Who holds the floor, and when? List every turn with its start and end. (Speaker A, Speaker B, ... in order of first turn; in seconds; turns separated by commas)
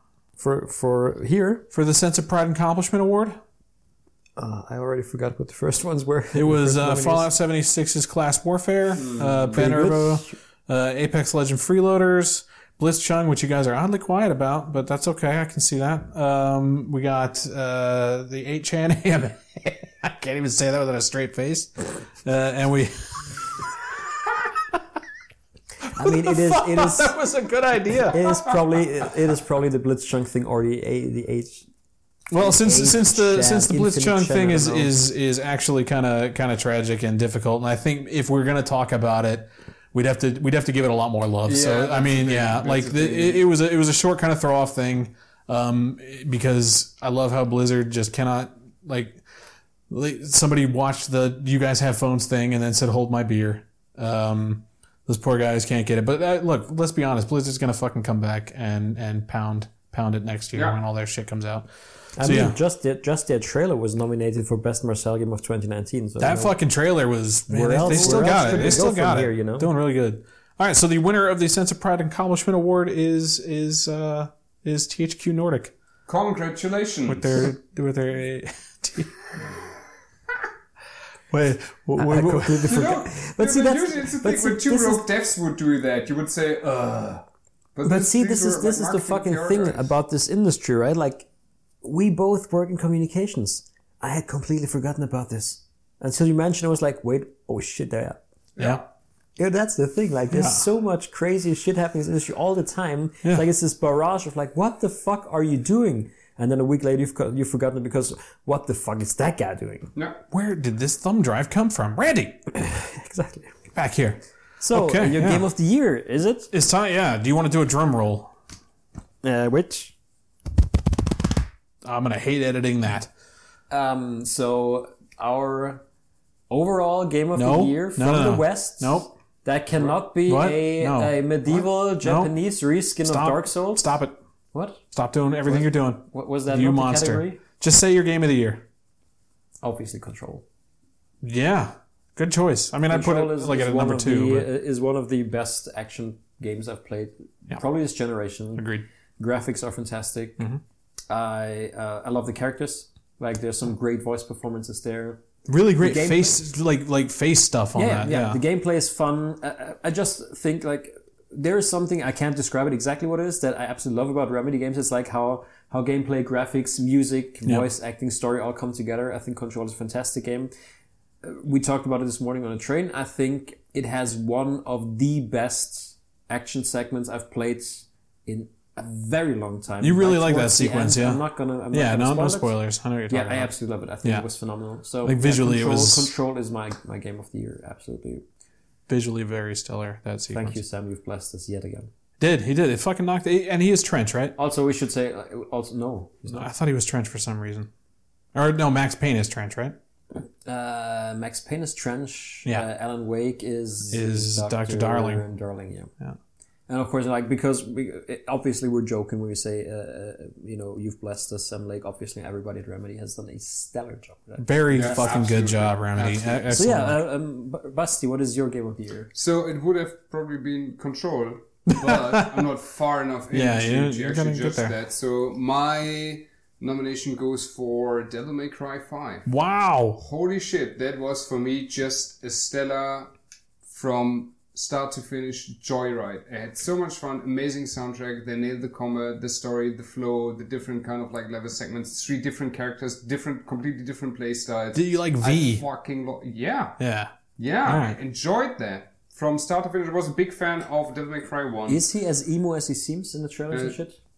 Speaker A: 0.4-1.7, Speaker B: 1.7-3.4, Speaker A: 4.4-7.3, Speaker B: 6.3-23.4, Speaker C: 9.0-9.6, Speaker A: 9.5-10.3, Speaker B: 24.3-24.7, Speaker B: 25.9-28.2, Speaker A: 25.9-27.1, Speaker A: 28.1-31.7, Speaker B: 32.3-49.2, Speaker A: 32.4-35.0, Speaker C: 41.5-43.4, Speaker B: 49.9-61.7, Speaker C: 60.5-60.8, Speaker A: 62.2-66.6, Speaker B: 62.2-62.6, Speaker B: 66.2-75.7, Speaker A: 67.5-69.7, Speaker C: 67.8-68.8, Speaker C: 76.1-77.5, Speaker B: 77.0-79.2, Speaker B: 81.3-82.8, Speaker A: 82.0-85.0, Speaker C: 82.6-87.2, Speaker C: 87.8-89.9, Speaker A: 87.8-91.3, Speaker A: 91.8-98.2, Speaker C: 98.5-98.8, Speaker B: 98.6-98.8, Speaker A: 99.4-109.9, Speaker B: 100.3-100.6, Speaker C: 110.0-110.2, Speaker B: 110.3-112.5, Speaker A: 112.5-113.5, Speaker B: 113.7-115.5, Speaker A: 114.6-116.5, Speaker B: 116.5-118.3, Speaker A: 119.2-120.0, Speaker B: 121.8-123.1, Speaker A: 123.7-125.8, Speaker A: 126.5-133.9, Speaker B: 127.3-129.1, Speaker B: 130.2-132.3, Speaker B: 133.0-134.2, Speaker A: 134.5-134.8, Speaker B: 134.9-138.6, Speaker A: 135.4-137.4, Speaker A: 139.6-140.4, Speaker B: 141.2-144.5, Speaker A: 142.9-150.4, Speaker B: 148.6-148.8, Speaker A: 151.1-155.2, Speaker B: 155.5-158.4, Speaker A: 155.8-156.4, Speaker A: 157.7-170.5, Speaker A: 171.2-182.6, Speaker B: 179.8-184.3, Speaker A: 183.1-188.2, Speaker B: 185.0-186.1, Speaker B: 188.9-190.6, Speaker A: 190.3-191.9, Speaker B: 192.2-194.3, Speaker A: 194.4-196.5, Speaker B: 196.3-197.7, Speaker B: 198.3-199.8, Speaker A: 200.4-205.9, Speaker B: 203.9-205.2, Speaker A: 206.7-215.1, Speaker B: 214.4-217.0, Speaker C: 214.7-216.4, Speaker A: 216.5-219.1, Speaker C: 219.1-229.3, Speaker B: 221.7-222.4, Speaker B: 223.3-224.7, Speaker B: 229.2-230.0, Speaker C: 230.0-233.1, Speaker C: 233.7-246.8, Speaker B: 244.7-245.6, Speaker B: 246.8-247.1, Speaker C: 247.4-251.8, Speaker B: 247.6-248.0, Speaker A: 251.7-254.0, Speaker C: 253.5-253.8